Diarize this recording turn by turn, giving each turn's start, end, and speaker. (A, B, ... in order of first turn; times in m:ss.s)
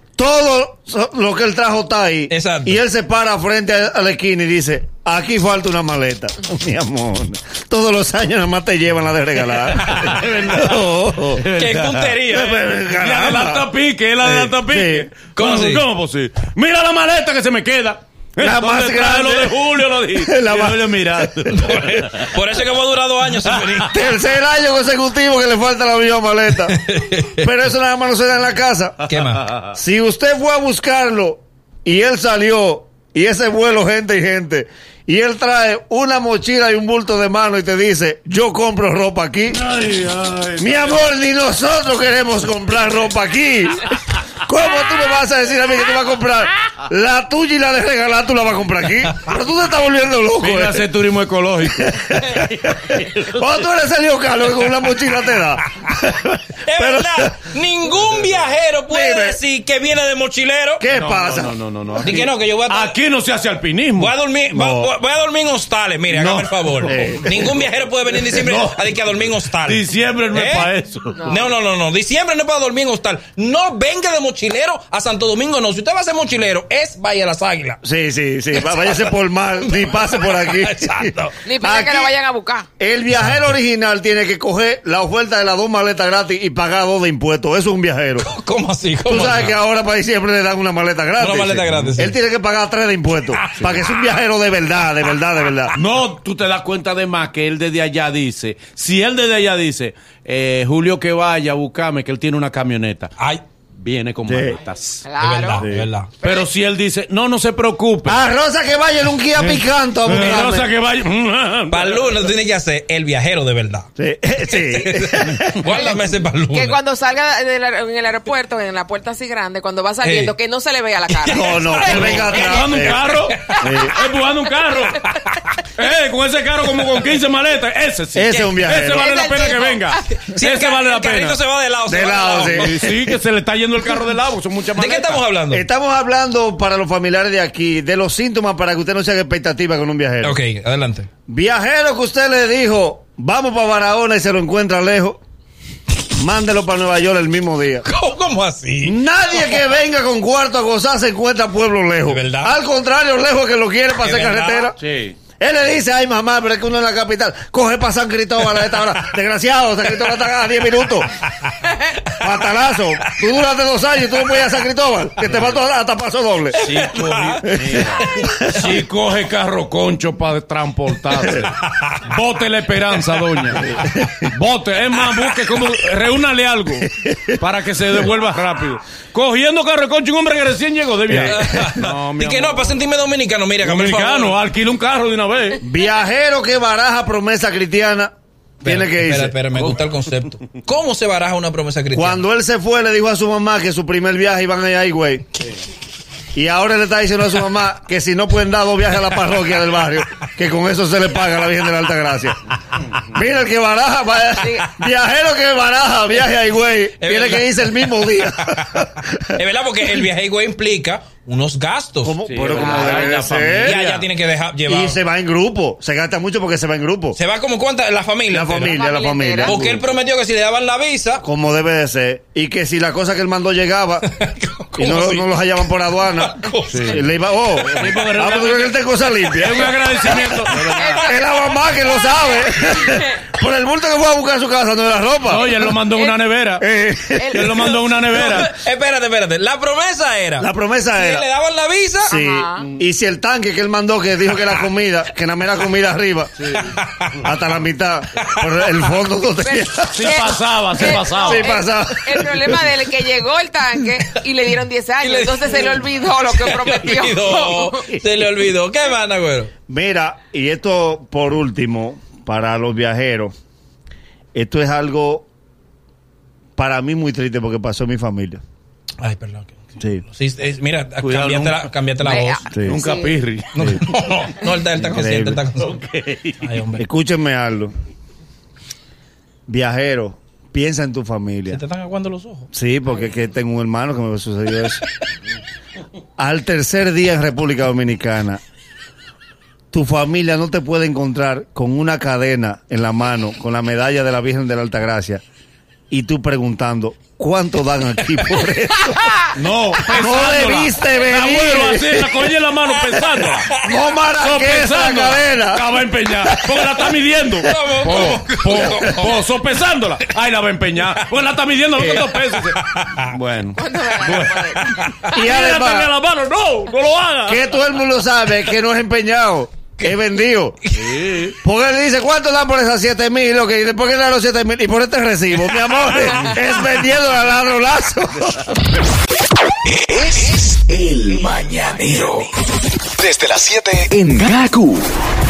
0:00.2-0:11.4 A
0:02.3-0:02.8 B
0:09.5-0:12.3 C
0:11.5-0:12.6 B
0:12.3-0:15.1 A
0:12.9-0:22.3 C
0:15.3-0:15.8 B
0:18.4-0:21.3 A
0:21.5-0:23.9 B
0:23.5-0:23.9 C
0:23.8-0:26.8 A
0:26.7-0:27.5 B
0:27.4-0:29.0 A
0:29.1-0:29.4 B
0:29.3-0:29.7 C
0:29.7-0:39.6 A
0:39.5-0:41.1 C
0:40.6-0:43.9 A
0:44.4-0:50.8 A
0:50.4-0:53.5 C
0:51.7-0:57.3 A
0:56.6-1:00.8 B
0:58.9-0:59.4 A
1:00.8-1:02.2 A
1:00.9-1:04.1 C
1:02.0-1:02.9 B
1:04.0-1:10.7 B
1:04.5-1:04.9 A
1:06.1-1:07.5 C
1:06.8-1:07.5 A
1:08.3-1:08.8 C
1:09.6-1:11.2 C
1:11.1-1:11.5 D
1:11.3-1:17.8 B
1:17.8-1:22.1 A
1:18.5-1:19.1 B
1:19.6-1:21.4 B
1:21.4-1:22.7 D
1:22.8-1:28.3 A
1:23.2-1:23.5 B
1:28.2-1:29.6 B
1:29.0-1:35.8 A
1:31.2-1:32.2 B
1:35.8-1:43.1 C
1:43.2-1:43.4 B
1:43.7-1:45.1 C
1:44.2-1:44.6 A
1:45.0-1:45.6 D
1:45.2-1:46.1 B
1:45.6-1:45.9 A
1:46.2-1:48.2 C
1:48.0-1:50.7 A
1:49.3-1:52.1 C
1:51.7-1:53.9 B
1:54.0-1:55.7 A
1:54.5-1:56.8 B
1:56.5-2:02.8 D
2:00.0-2:00.3 B
2:01.3-2:03.0 A
2:01.7-2:02.3 B
2:01.8-2:05.1 C
2:03.4-2:03.7 D
2:03.6-2:04.0 A
2:05.0-2:05.6 B
2:05.8-2:11.4 C
2:08.1-2:09.0 A
2:08.3-2:08.5 B
2:08.9-2:10.0 D
2:10.1-2:12.7 B
2:11.9-2:13.0 A
2:12.4-2:15.2 C
2:14.7-2:15.7 B
2:15.5-2:20.4 A
2:20.2-2:21.1 B
2:21.3-2:25.2 A
2:26.2-2:27.8 A
2:27.8-2:29.6 B
2:28.8-2:34.8 A
2:32.0-2:32.5 B
2:34.0-2:34.7 B
2:34.8-2:35.2 C
2:35.4-2:41.1 A
2:41.4-2:41.8 B
2:42.2-2:46.7 A
2:45.2-2:45.5 C
2:46.5-3:02.8 C
2:46.7-2:48.6 B
2:47.4-2:48.5 A
2:51.6-2:52.0 B
2:53.6-2:54.3 A
2:57.0-2:57.3 A
3:01.1-3:01.7 A
3:01.2-3:04.4 B
3:03.6-3:05.6 C
3:05.6-3:09.4 A
3:08.6-3:12.2 B
3:09.5-3:09.8 C
3:11.9-3:15.2 A
3:16.3-3:22.4 A
3:23.0-3:29.4 A
3:24.4-3:24.7 D
3:27.0-3:32.2 B
3:32.0-3:33.8 A
3:32.2-3:34.0 C
3:32.5-3:33.1 D
3:33.6-3:35.0 B
3:34.6-3:37.2 A
3:37.1-3:38.8 B
3:38.3-3:39.9 A
3:38.7-3:39.6 D
3:39.4-3:41.2 B
3:41.2-3:44.1 A
3:44.0-3:45.3 B
3:44.7-3:50.2 A
3:46.2-3:47.0 B
3:46.7-3:47.0 C
3:47.6-3:48.7 C
3:49.3-3:51.0 C
3:49.8-3:50.6 B
3:50.7-3:53.2 D
3:50.9-3:55.6 A
3:55.3-3:56.6 C
3:56.6-3:57.7 A
3:57.1-3:57.6 D
3:57.3-3:58.5 C
3:58.1-4:02.1 B
4:00.4-4:01.3 A
4:02.0-4:06.3 A
4:02.1-4:02.7 D
4:06.4-4:06.7 C
4:06.6-4:07.2 B
4:07.2-4:10.3 A
4:08.2-4:08.9 B
4:09.4-4:18.0 D
4:09.9-4:11.5 C
4:11.2-4:12.7 A
4:15.0-4:19.5 B
4:19.7-4:23.3 A
4:24.3-4:25.3 A
4:26.6-4:28.4 A
4:29.0-4:32.4 B
4:29.8-4:30.0 A
4:31.0-4:33.8 C
4:32.1-4:33.2 D
4:32.5-4:32.8 A
4:33.5-4:35.8 B
4:34.8-4:35.4 A
4:35.6-4:36.4 C
4:36.4-4:36.8 B
4:36.8-4:37.7 A
4:39.5-4:41.6 A
4:41.5-4:42.5 B
4:42.5-4:44.8 A
4:46.2-4:48.4 A
4:49.7-4:55.2 A
4:55.9-4:59.2 A
4:59.3-5:03.5 C
4:59.9-5:02.3 A
5:02.9-5:03.7 B
5:03.6-5:05.6 A
5:04.2-5:17.8 C
5:06.2-5:07.3 A
5:07.4-5:09.2 B
5:12.5-5:13.1 B
5:13.5-5:14.7 D
5:14.9-5:15.1 B
5:15.1-5:15.9 A
5:17.2-5:20.6 A
5:20.8-5:21.4 C
5:21.4-5:28.5 A
5:29.9-5:32.2 E
5:33.0-5:34.8 E